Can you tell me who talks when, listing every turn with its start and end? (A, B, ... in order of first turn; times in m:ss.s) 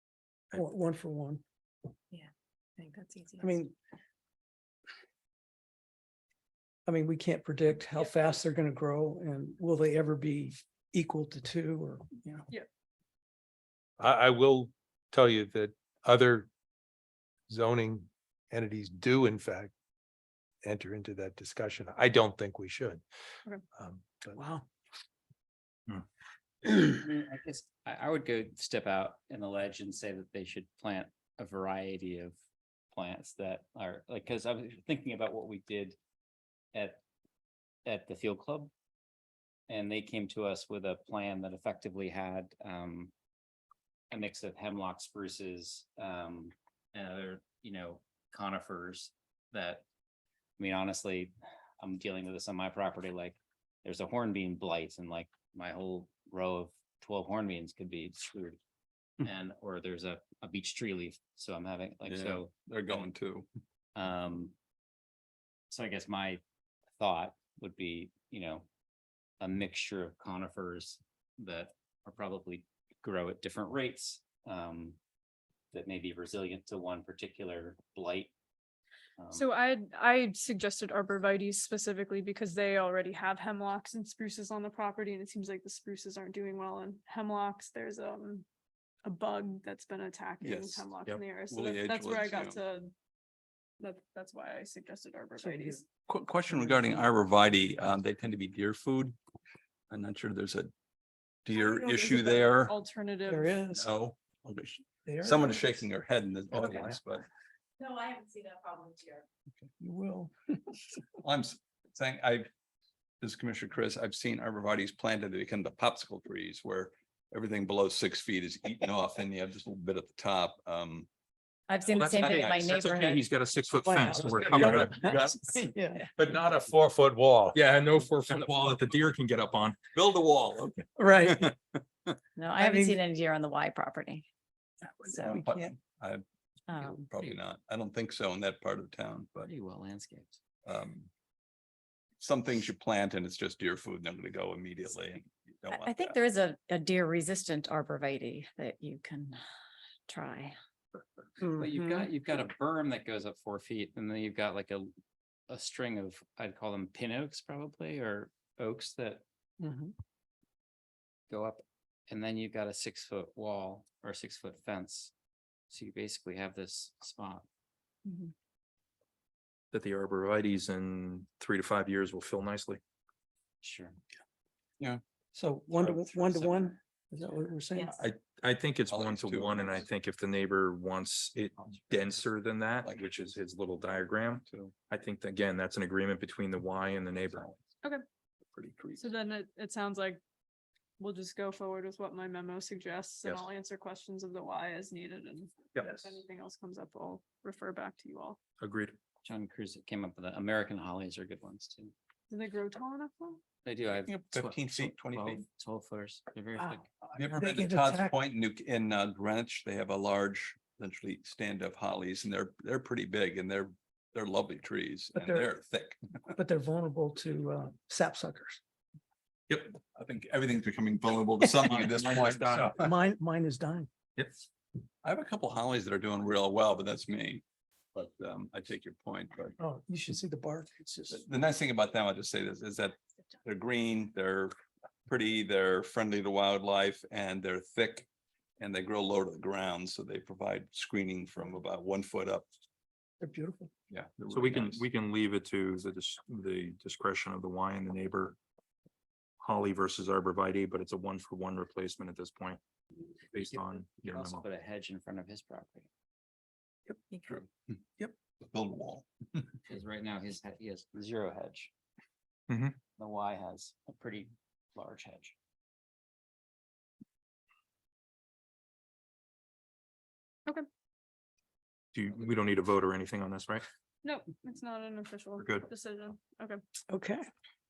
0:00.5-0:01.4 A
0:02.8-0:03.4 B
0:03.4-0:03.7 A
0:06.8-0:12.5 A
0:14.0-0:16.5 C
0:17.5-0:19.7 C
0:20.6-0:23.0 C
0:23.7-0:24.4 C
0:24.4-0:24.6 A
0:26.6-0:32.3 D
0:32.9-0:36.0 D
0:36.7-0:37.0 D
0:37.8-0:38.7 D
0:39.7-0:43.1 D
0:44.1-0:49.8 D
0:50.6-0:58.6 D
0:59.2-1:02.5 D
1:02.0-1:03.5 E
1:04.0-1:04.5 D
1:05.7-1:06.4 D
1:07.0-1:08.6 D
1:09.4-1:15.0 D
1:15.7-1:18.3 D
1:19.2-1:19.5 D
1:19.3-1:28.4 F
1:29.0-1:32.9 F
1:30.4-1:30.9 E
1:31.4-1:32.6 E
1:33.8-1:35.8 F
1:35.4-1:35.8 A
1:36.1-1:39.2 E
1:36.5-1:37.0 A
1:39.9-1:40.7 E
1:41.4-1:42.8 E
1:41.5-1:43.6 F
1:43.3-1:43.9 A
1:43.8-1:47.2 E
1:45.0-1:45.8 A
1:46.6-1:46.9 C
1:47.8-1:49.2 B
1:49.6-1:50.3 E
1:50.0-1:50.3 A
1:51.2-1:52.5 E
1:53.2-2:01.1 E
2:01.7-2:03.1 B
2:01.9-2:05.3 G
2:01.9-2:02.9 E
2:03.8-2:06.0 A
2:04.4-2:05.4 E
2:06.2-2:09.8 G
2:09.9-2:12.1 E
2:11.0-2:11.5 A
2:12.4-2:14.2 B
2:12.5-2:13.0 A
2:15.0-2:15.7 A
2:15.0-2:19.5 E
2:16.7-2:17.0 B
2:17.1-2:17.4 D
2:19.4-2:20.3 D
2:20.6-2:21.1 E
2:22.2-2:26.2 E
2:25.7-2:29.4 B
2:30.1-2:30.5 B
2:31.4-2:32.1 A
2:31.4-2:34.9 D
2:35.5-2:39.2 D
2:39.6-2:39.9 A
2:41.3-2:45.1 D
2:45.7-2:47.4 D
2:49.7-2:52.8 G
2:53.6-2:54.0 D
2:55.3-2:58.0 A
2:55.9-2:56.4 E
2:57.9-3:07.5 G
2:58.9-2:59.8 E
3:02.8-3:03.3 E
3:04.5-3:04.8 E
3:07.3-3:07.6 E
3:08.5-3:09.1 E
3:09.0-3:10.2 F
3:11.0-3:18.4 F
3:18.6-3:19.0 G
3:19.2-3:21.9 D
3:22.3-3:23.4 F
3:23.6-3:26.9 D
3:24.0-3:25.4 E
3:26.6-3:28.2 A
3:27.1-3:36.3 E
3:35.1-3:35.5 A
3:36.3-3:38.6 A
3:39.5-3:42.9 E
3:41.4-3:41.8 A
3:41.6-3:42.8 G
3:42.7-3:43.9 A
3:44.2-3:44.4 G
3:45.0-3:47.4 E
3:47.9-3:49.6 E
3:49.6-3:51.2 A
3:51.1-3:54.5 E
3:55.1-3:58.1 E
3:58.6-4:02.5 E
4:03.2-4:03.7 A
4:03.9-4:04.8 E
4:04.3-4:08.4 G
4:09.4-4:12.6 G
4:13.3-4:14.4 G
4:13.5-4:15.9 D
4:17.2-4:19.6 E
4:19.6-4:21.7 D
4:22.5-4:22.8 G
4:23.0-4:25.3 D
4:31.9-4:33.6 G
4:34.0-4:36.6 F
4:35.4-4:35.6 G
4:36.9-4:37.2 A